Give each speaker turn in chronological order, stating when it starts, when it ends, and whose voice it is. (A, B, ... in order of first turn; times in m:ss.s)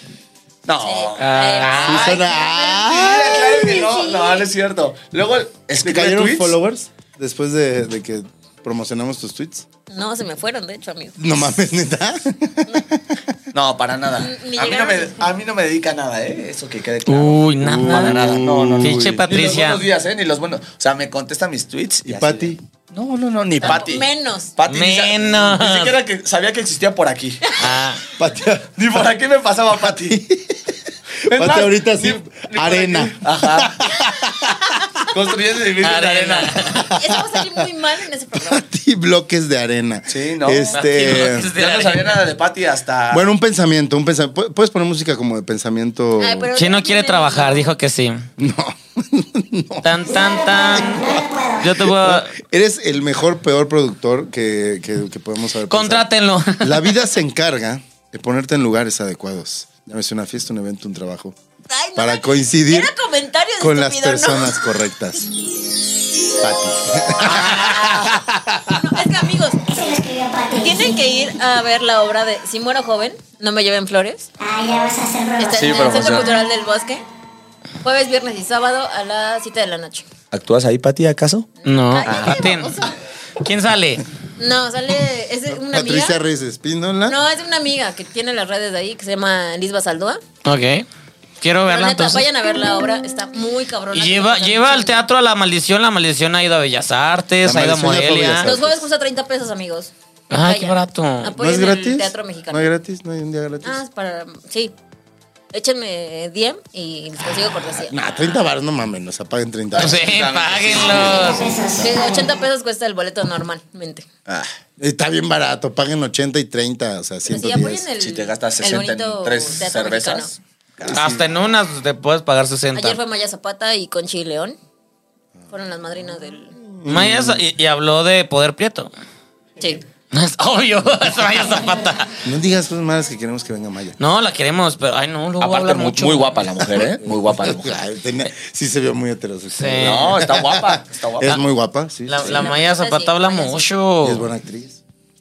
0:00.6-0:02.1 A
0:00.8-0:04.5 B
0:01.2-0:02.2 C
0:01.8-0:03.4 D
0:02.9-0:06.6 A
0:05.8-0:09.7 D
0:09.9-0:11.4 B
0:11.2-0:13.2 D
0:13.5-0:27.5 A
0:14.2-0:15.3 B
0:17.1-0:18.2 C
0:17.6-0:19.2 D
0:18.8-0:19.8 C
0:22.0-0:22.6 D
0:23.6-0:24.5 B
0:24.7-0:26.0 C
0:27.6-0:28.0 C
0:28.2-0:28.8 D
0:28.7-0:30.2 A
0:29.8-0:34.8 D
0:31.3-0:33.8 A
0:35.1-0:36.8 A
0:35.8-0:36.8 C
0:36.9-0:37.7 D
0:36.9-0:38.6 B
0:38.3-0:41.5 D
0:40.1-0:43.3 A
0:40.7-0:42.2 C
0:43.1-0:46.5 D
0:46.2-0:47.7 B
0:46.6-0:48.2 C
0:48.4-0:50.2 D
0:49.8-0:51.0 C
0:50.1-0:51.8 E
0:51.6-0:52.3 C
0:51.7-1:01.4 D
0:55.7-0:56.9 C
1:01.7-1:04.6 B
1:02.0-1:02.9 D
1:03.6-1:05.3 D
1:06.3-1:08.8 D
1:07.2-1:10.0 B
1:09.7-1:11.0 E
1:10.6-1:14.3 B
1:14.4-1:16.3 E
1:15.4-1:17.0 B
1:15.5-1:16.3 A
1:17.8-1:20.1 B
1:20.3-1:21.5 A
1:21.6-1:23.0 B
1:21.6-1:22.8 C
1:22.0-1:22.4 A
1:23.4-1:24.0 C
1:24.4-1:26.2 B
1:25.5-1:27.2 D
1:27.1-1:30.2 B
1:30.4-1:30.9 C
1:31.4-1:32.2 C
1:31.6-1:35.0 B
1:33.9-1:38.5 C
1:37.4-1:38.8 D
1:38.4-1:42.7 B
1:40.3-1:41.3 C
1:41.4-1:43.8 D
1:43.6-1:44.7 B
1:45.5-1:48.2 B
1:47.8-1:50.1 D
1:49.7-1:51.4 A
1:49.7-1:51.5 C
1:50.7-1:52.3 E
1:51.8-1:54.0 B
1:54.3-1:54.6 A
1:54.8-1:57.9 D
1:57.3-2:00.3 B
1:58.0-2:01.0 A
2:00.8-2:01.3 D
2:00.9-2:03.0 C
2:02.7-2:04.6 B
2:05.5-2:06.6 B
2:06.6-2:07.4 D
2:06.8-2:08.9 C
2:10.1-2:12.2 C
2:12.2-2:14.0 D
2:14.0-2:16.5 C
2:15.4-2:17.8 A
2:16.8-2:22.5 D
2:19.5-2:20.2 C
2:19.8-2:21.4 A
2:22.1-2:24.3 C
2:22.2-2:23.6 B
2:24.0-2:24.8 D